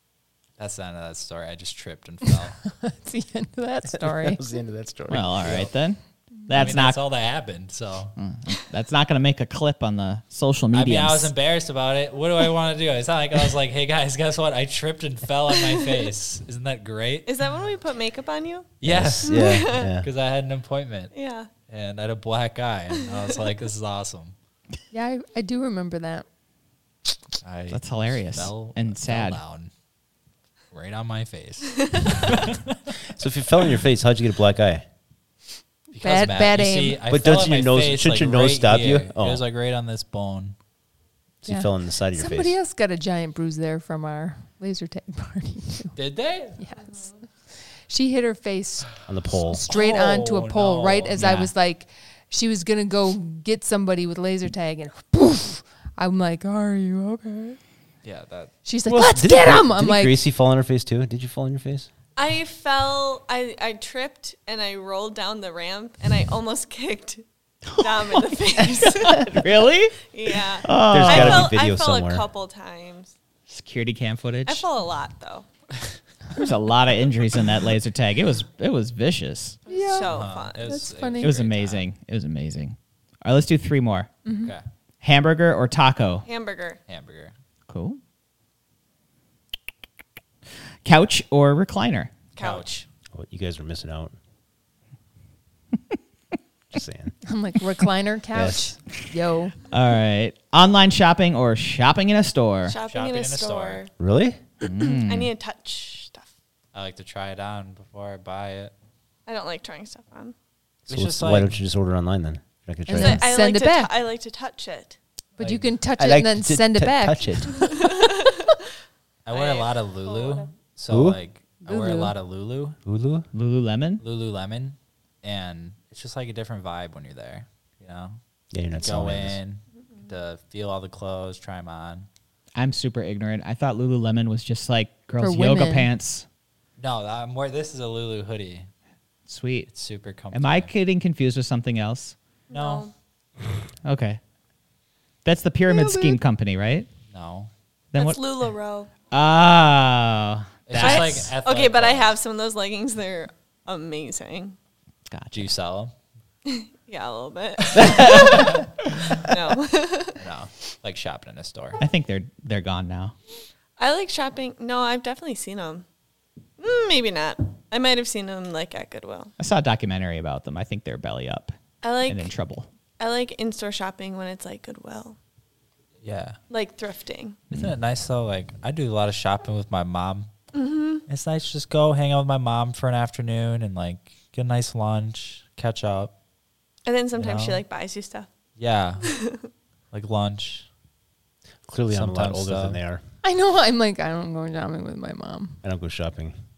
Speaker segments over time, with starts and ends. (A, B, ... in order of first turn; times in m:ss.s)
0:00.6-0:02.6 A
0:02.7-0:04.5 B
0:03.9-0:05.7 C
0:05.1-0:07.0 D
0:06.5-0:08.1 A
0:08.2-0:11.3 D
0:10.7-0:17.5 A
0:17.2-0:19.9 E
0:18.8-0:21.1 A
0:18.8-0:20.1 C
0:21.1-0:21.5 E
0:21.7-0:24.3 A
0:24.9-0:26.2 B
0:27.4-0:29.7 A
0:27.7-0:29.4 D
0:30.7-0:32.9 A
0:31.8-0:32.2 E
0:33.1-0:34.8 C
0:35.9-0:40.6 A
0:36.0-0:37.0 B
0:37.1-0:39.4 C
0:41.4-0:42.5 C
0:41.4-0:46.0 B
0:45.9-0:46.6 A
0:46.6-0:57.6 B
0:49.0-0:49.6 C
0:49.7-0:51.3 A
0:51.2-0:51.5 D
0:58.0-0:58.5 A
0:58.6-1:00.2 B
0:58.9-1:01.9 C
1:02.2-1:07.2 E
1:07.7-1:08.2 D
1:07.8-1:13.1 E
1:08.8-1:11.6 D
1:10.8-1:12.2 C
1:13.5-1:14.6 D
1:14.4-1:15.4 E
1:16.3-1:19.6 D
1:19.7-1:21.4 B
1:19.7-1:20.8 E
1:20.0-1:21.9 A
1:21.2-1:24.1 D
1:24.2-1:24.5 B
1:25.0-1:26.2 D
1:26.2-1:26.8 E
1:26.9-1:27.3 A
1:27.7-1:28.0 D
1:30.8-1:32.2 D
1:32.4-1:32.8 E
1:32.4-1:32.8 A
1:33.1-1:34.1 C
1:36.7-1:37.1 C
1:37.2-1:39.5 B
1:38.3-1:38.7 C
1:39.7-1:42.8 D
1:42.6-1:43.9 E
1:42.8-1:43.8 A
1:44.0-1:44.4 C
1:44.6-1:45.3 D
1:44.8-1:46.3 E
1:46.7-1:48.7 A
1:49.2-1:50.3 E
1:50.9-1:51.5 A
1:50.9-1:53.2 C
1:52.9-1:53.9 B
1:52.9-1:55.0 E
1:55.4-1:55.7 A
1:55.4-1:57.5 B
1:56.0-1:57.6 C
1:57.6-1:58.4 E
1:59.2-2:02.8 A
1:59.3-2:00.5 E
2:00.9-2:01.2 C
2:01.6-2:02.1 B
2:02.8-2:03.3 C
2:03.3-2:04.0 D
2:04.0-2:08.2 A
2:08.5-2:09.4 C
2:08.8-2:12.1 A
2:12.6-2:16.2 D
2:15.2-2:15.9 B
2:16.8-2:18.7 A
2:19.3-2:19.7 D
2:19.7-2:20.7 A
2:20.3-2:22.2 D
2:22.5-2:22.9 E
2:22.5-2:22.9 A
2:23.8-2:24.2 D
2:25.2-2:26.9 D
2:27.1-2:27.5 A
2:27.9-2:28.2 D
2:28.0-2:28.9 E
2:29.1-2:31.3 D
2:30.7-2:32.2 A
2:30.8-2:34.6 E
2:35.1-2:35.5 D
2:35.3-2:35.9 A
2:36.4-2:38.6 E
2:37.8-2:38.7 D
2:38.0-2:38.4 A
2:39.2-2:40.2 E
2:40.2-2:41.8 A
2:41.8-2:43.1 D
2:43.8-2:45.8 E
2:46.6-2:49.3 E
2:49.4-2:51.5 D
2:51.8-2:52.4 E
2:52.1-2:52.7 D
2:53.0-2:55.2 E
2:56.0-2:56.4 A
2:56.5-2:57.4 E
2:57.5-3:00.3 A
3:00.5-3:01.0 E
3:01.1-3:06.1 A
3:06.8-3:08.3 E
3:07.2-3:07.6 A
3:08.6-3:09.1 A
3:09.0-3:09.5 E
3:09.9-3:10.7 A
3:11.7-3:13.0 C
3:11.9-3:12.8 A
3:13.2-3:15.6 B
3:15.6-3:16.4 C